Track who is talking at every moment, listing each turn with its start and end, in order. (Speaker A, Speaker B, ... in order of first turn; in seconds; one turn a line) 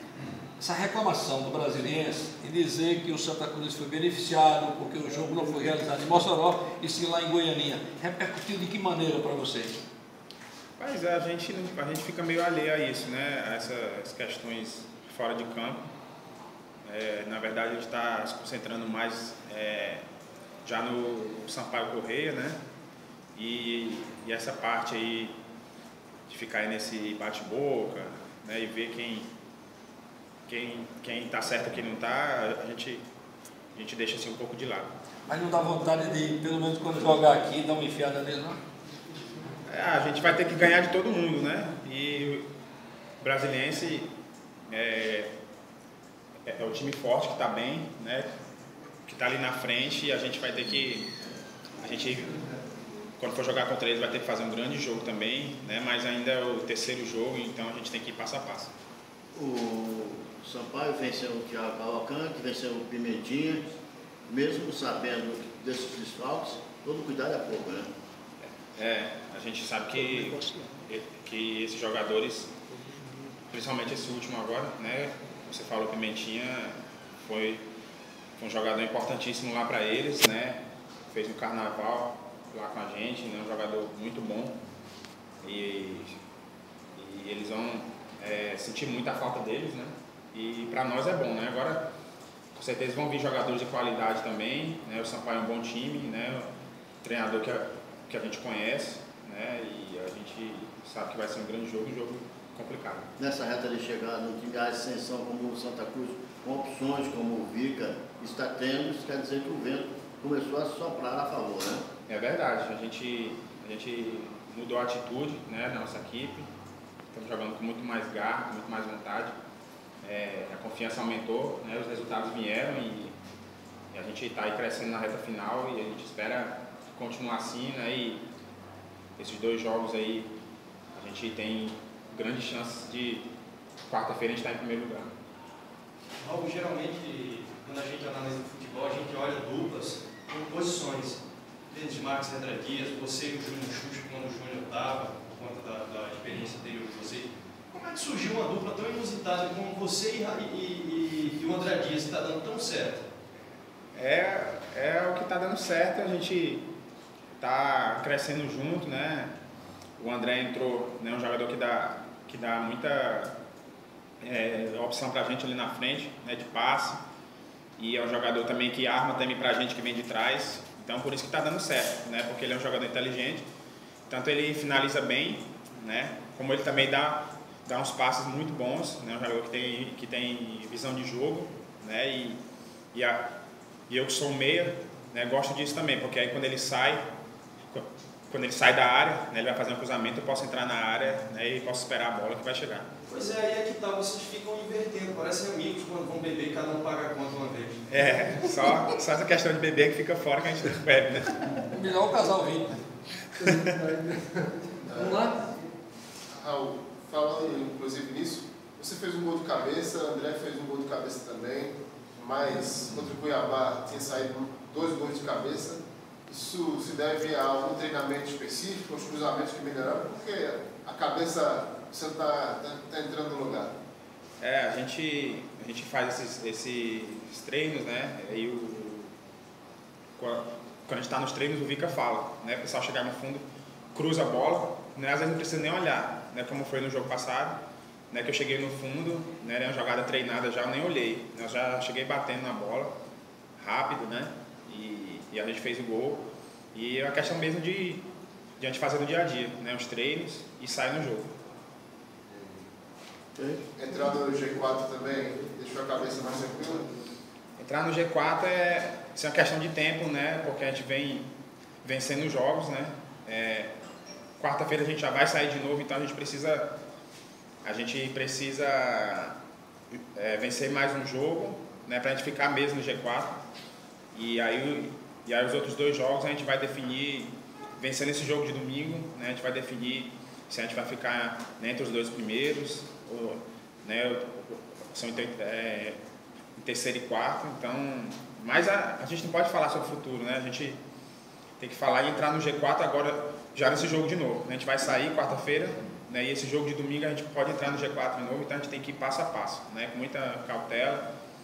Speaker A: 0.6-9.8
Speaker B: 10.8-15.9
Speaker B: 16.8-20.0
Speaker B: 20.6-22.6
Speaker B: 23.4-25.3
Speaker B: 26.3-29.3
Speaker B: 30.5-33.0
Speaker B: 33.7-34.9
Speaker A: 35.3-38.6
Speaker B: 39.6-42.5
Speaker B: 43.2-44.1
Speaker B: 44.7-45.3
Speaker B: 46.5-48.3
Speaker B: 49.0-51.1
Speaker B: 51.8-52.4
Speaker B: 53.2-58.7
Speaker C: 59.3-63.6
Speaker C: 64.3-67.9
Speaker B: 68.5-72.5
Speaker B: 73.5-77.6
Speaker B: 78.4-84.6
Speaker B: 85.4-86.2
Speaker B: 87.0-91.9
Speaker B: 92.5-96.5
Speaker B: 97.0-103.1
Speaker C: 103.2-111.8
Speaker B: 112.1-116.5
Speaker B: 117.1-119.3
Speaker B: 120.0-123.2
Speaker B: 123.9-128.2
Speaker B: 129.2-130.3
Speaker B: 130.9-133.2
Speaker B: 133.9-135.1
Speaker D: 136.2-153.1
Speaker B: 153.9-156.7
Speaker B: 157.4-159.3
Speaker B: 160.0-163.3
Speaker B: 164.2-167.0
Speaker B: 167.8-173.4
Speaker B: 174.1-182.4
Speaker B: 182.9-183.3
Speaker B: 183.9-187.0
Speaker B: 187.7-192.9
Speaker D: 193.1-197.8
Speaker B: 197.9-201.6
Speaker A: 201.6-202.8
Speaker B: 203.3-203.8
Speaker E: 204.8-205.3
Speaker A: 205.0-205.3
Speaker E: 206.3-223.7
Speaker B: 224.4-229.1
Speaker B: 230.2-242.9
Speaker B: 243.6-248.0
Speaker B: 248.6-251.3
Speaker E: 252.3-252.6
Speaker C: 253.3-253.6
Speaker E: 253.8-256.9
Speaker B: 257.6-261.3
Speaker B: 261.8-263.7
Speaker B: 264.4-266.8
Speaker B: 267.6-269.4
Speaker B: 270.1-273.4
Speaker B: 274.1-286.0
Speaker B: 286.6-290.8
Speaker B: 291.6-301.1